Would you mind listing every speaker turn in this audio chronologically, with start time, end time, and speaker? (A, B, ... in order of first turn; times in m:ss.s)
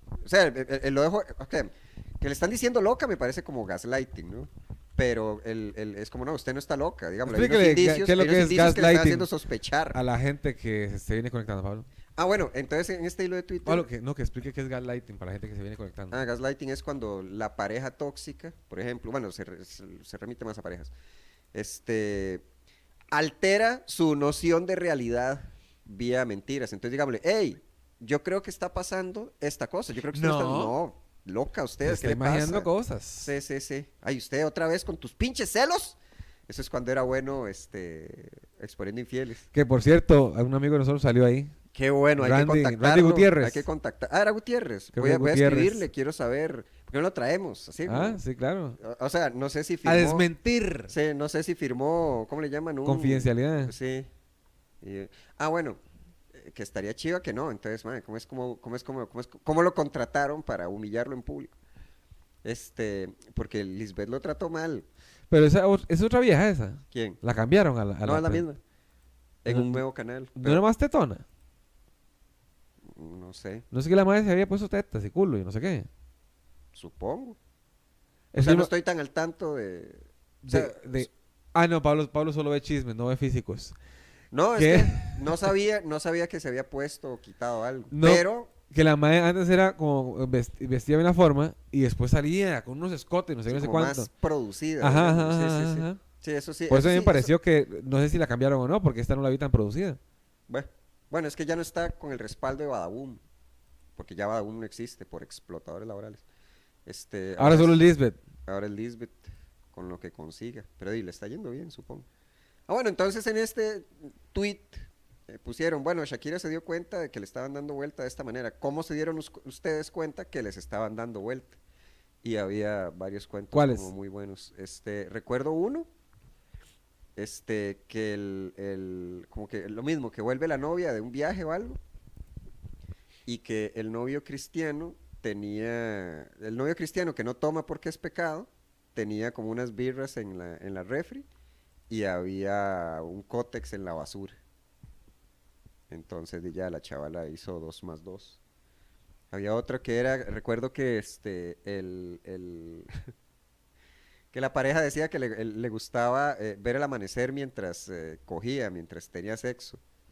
0:00.2-0:10.0 A
0:07.3-0:09.3 B
0:09.9-0:11.9 B
0:12.2-0:13.9 A
0:13.7-0:16.2 B
0:16.1-0:20.9 A
0:21.5-0:22.4 A
0:23.1-0:32.7 A
0:30.1-0:30.8 B
0:31.8-0:33.3 B
0:33.2-0:39.5 A
0:39.5-0:41.6 B
0:41.7-0:48.2 A
0:42.2-0:43.7 B
0:44.9-0:45.9 B
0:47.9-0:48.8 B
0:48.8-0:50.3 A
0:49.8-0:50.9 B
0:50.9-0:54.1 A
0:52.8-0:53.7 B
0:54.8-0:55.8 A
0:56.3-1:01.5 A
1:02.4-1:04.9 A
1:05.3-1:08.4 B
1:06.9-1:07.2 A
1:08.0-1:08.6 A
1:09.4-1:10.6 A
1:09.5-1:09.8 B
1:10.4-1:11.2 B
1:12.8-1:13.6 A
1:13.7-1:15.9 B
1:16.7-1:17.4 A
1:18.3-1:18.7 B
1:18.4-1:21.1 A
1:20.4-1:23.8 B
1:24.3-1:28.5 A
1:24.6-1:25.5 B
1:27.9-1:34.1 B
1:33.5-1:37.3 A
1:34.8-1:36.0 B
1:36.7-1:40.0 B
1:40.5-1:43.2 A
1:44.0-1:46.2 A
1:46.9-1:47.8 A
1:47.4-1:48.2 B
1:48.5-1:52.1 A
1:52.7-2:01.6 A
2:02.2-2:05.9 A
2:03.5-2:03.9 B
2:07.2-2:11.8 A
2:13.3-2:21.3 A
2:21.9-2:24.4 A
2:25.9-2:28.4 A
2:29.3-2:33.1 A
2:34.3-2:39.8 A